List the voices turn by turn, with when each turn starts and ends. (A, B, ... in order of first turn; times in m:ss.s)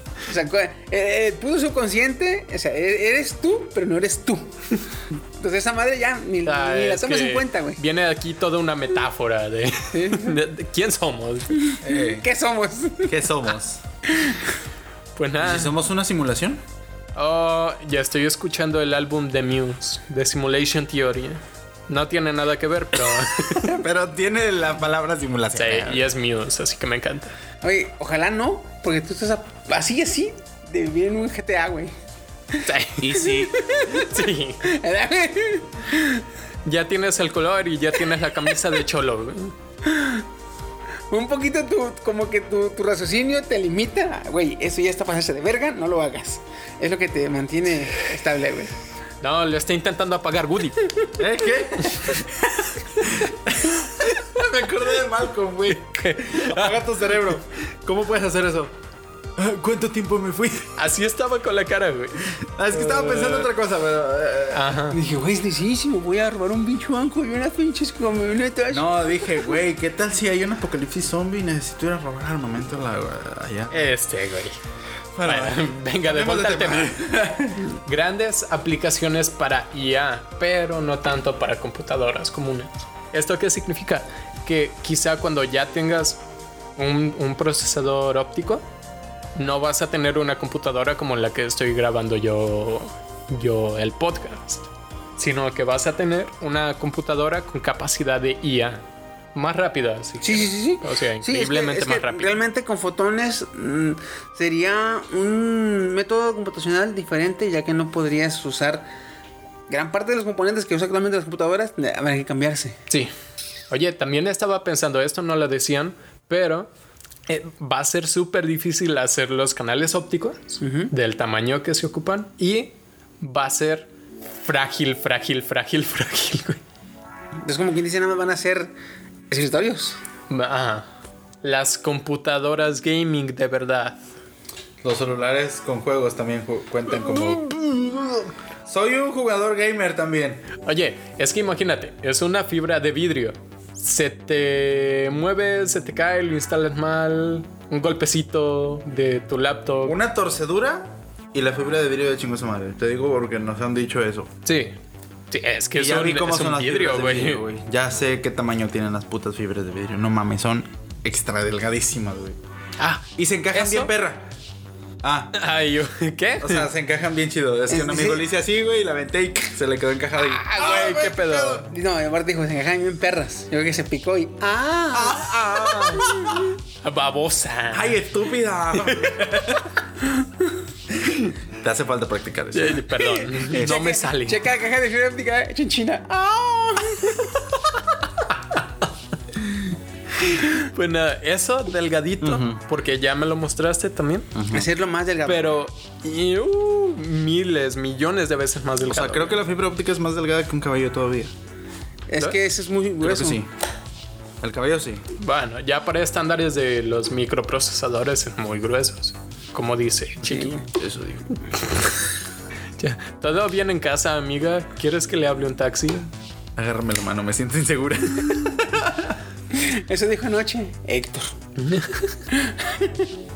0:00.3-0:04.5 A
0:05.4-0:07.8 A
0:06.4-0:11.7 B
0:09.9-0:10.4 A
0:11.6-0:13.2 A
0:11.8-0:12.2 C
0:13.0-0:13.8 C
0:14.1-0:14.5 A
0:15.2-0:15.7 B
0:15.4-0:16.6 C
0:17.2-0:23.7 B
0:23.4-0:26.0 C
0:25.5-0:27.3 B
0:27.6-0:31.9 A
0:32.6-0:34.6 B
0:33.0-0:33.6 C
0:33.1-0:34.1 A
0:34.6-0:36.2 A
0:36.6-0:39.5 B
0:39.8-0:40.2 A
0:41.1-0:48.7 A
0:49.2-0:50.9 B
0:51.2-0:58.7 C
0:55.7-0:56.8 B
0:59.4-1:00.7 C
1:00.8-1:03.5 B
1:02.5-1:04.8 C
1:04.5-1:05.0 B
1:04.9-1:09.4 A
1:08.7-1:13.8 C
1:13.7-1:14.6 B
1:15.1-1:17.7 C
1:15.2-1:17.1 B
1:17.6-1:26.2 B
1:26.8-1:28.6 B
1:29.4-1:34.6 B
1:35.2-1:38.8 B
1:39.3-1:42.4 B
1:40.2-1:48.9 A
1:49.7-1:52.8 A
1:53.7-1:56.7 B
1:57.3-2:03.9 B
2:00.6-2:00.9 A
2:04.4-2:06.6 B
2:07.4-2:08.7 A
2:09.3-2:10.0 A
2:10.3-2:10.9 B
2:11.4-2:14.0 B
2:14.8-2:20.4 C
2:20.6-2:30.0 B
2:29.8-2:34.3 C
2:34.4-2:34.7 B
2:35.3-2:37.4 B
2:35.7-2:42.4 C
2:42.8-2:43.9 B
2:43.1-2:44.3 C
2:45.0-2:45.3 C
2:45.3-2:46.7 B
2:46.4-2:51.6 C
2:47.7-2:48.2 A
2:50.2-2:55.3 A
2:50.4-2:51.7 B
2:54.9-2:56.4 C
2:55.6-2:56.0 B
2:55.9-2:56.4 A
2:56.8-2:58.0 B
2:57.7-2:59.7 C
2:58.7-2:59.2 B
3:01.6-3:03.9 C
3:02.5-3:04.4 B
3:03.4-3:07.4 A
3:10.3-3:14.3 B
3:12.2-3:12.6 C
3:14.3-3:14.6 C
3:14.5-3:15.5 A
3:15.2-3:19.4 B
3:18.8-3:21.3 C
3:22.1-3:23.4 A
3:23.0-3:23.5 C
3:24.4-3:25.0 C
3:25.2-3:30.6 B
3:30.2-3:30.6 A
3:30.8-3:31.7 C
3:32.8-3:36.1 B
3:36.6-3:39.1 C
3:39.5-3:41.3 A
3:41.6-3:42.2 B
3:42.3-3:43.1 A